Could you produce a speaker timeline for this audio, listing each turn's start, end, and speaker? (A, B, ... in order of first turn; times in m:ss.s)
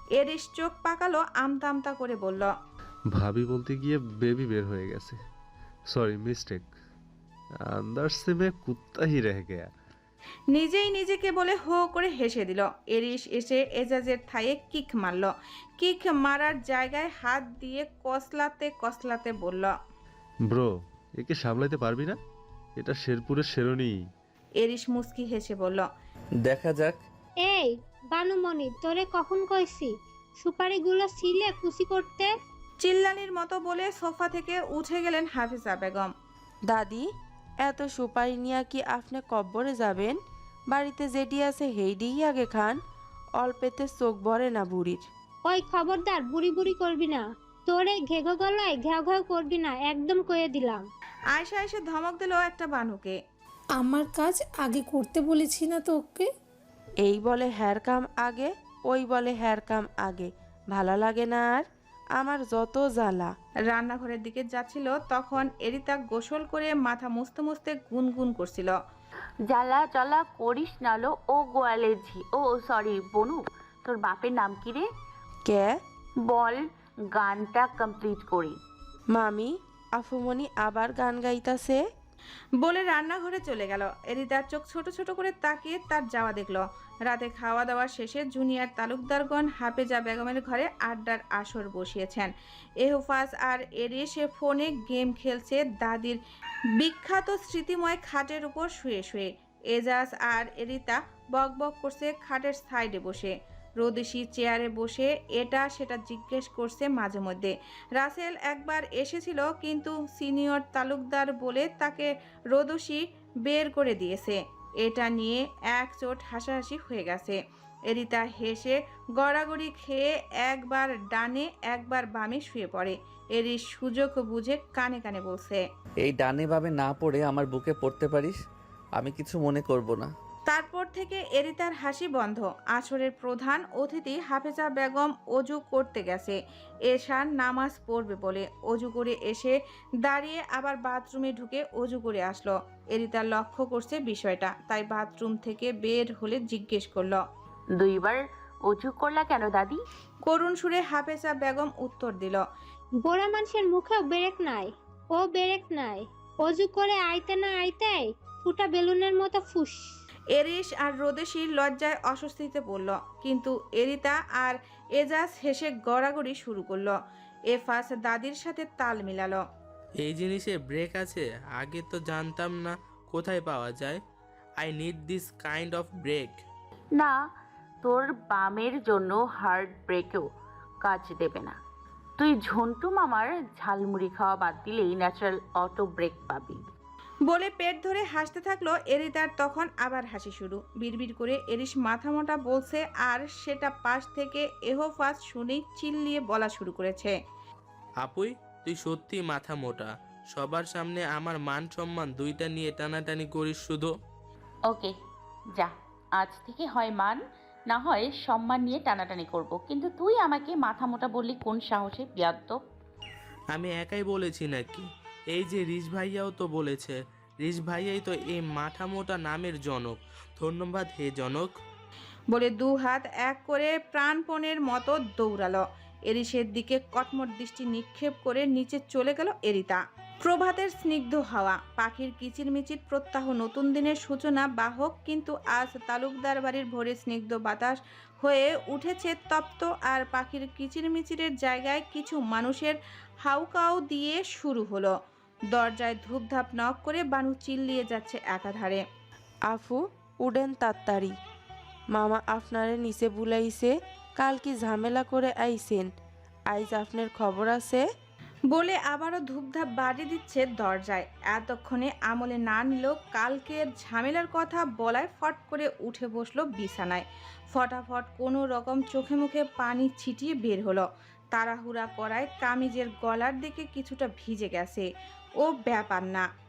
0:00.2-0:02.5 A
0:03.1-0:05.2 B
0:05.9-0:06.7 B
0:07.8-0:09.7 B
0:10.5-0:19.7 A
0:20.5-0:22.2 B
0:22.8-0:24.0 B
0:24.6-0:25.9 A
0:26.4-0:27.0 C
0:27.4-0:32.3 D
0:32.8-0:36.1 A
0:36.7-0:37.1 E
0:37.6-0:40.2 E
0:40.7-0:42.8 E
0:43.4-0:45.1 E
0:45.5-0:50.9 D
0:51.3-0:53.2 A
0:53.8-0:56.3 F
0:57.0-1:03.3 E
1:03.7-1:08.8 A
1:09.5-1:14.9 G
1:15.5-1:15.8 E
1:16.3-1:16.6 G
1:17.1-1:18.6 G
1:19.1-1:21.8 E
1:22.6-1:36.2 A
1:36.8-2:05.6 A
2:06.0-2:08.4 C
2:09.0-2:10.1 C
2:10.5-2:27.2 A
2:27.8-2:29.8 G
2:30.3-2:32.4 A
2:33.0-2:39.9 D
2:40.3-2:47.0 A
2:47.5-2:49.4 A
2:50.0-2:54.0 H
2:54.6-2:56.4 H
2:57.8-3:00.3 G
3:00.8-3:01.6 G
3:02.2-3:06.6 G
3:07.3-3:17.2 A
3:18.0-3:23.9 H
3:25.6-3:32.6 G
3:33.5-3:41.5 H
3:42.3-4:04.9 A
4:05.5-4:08.8 A
4:09.5-4:11.1 E
4:11.9-4:15.9 E
4:16.5-4:17.8 E
4:18.5-4:34.9 A
4:35.4-4:36.2 A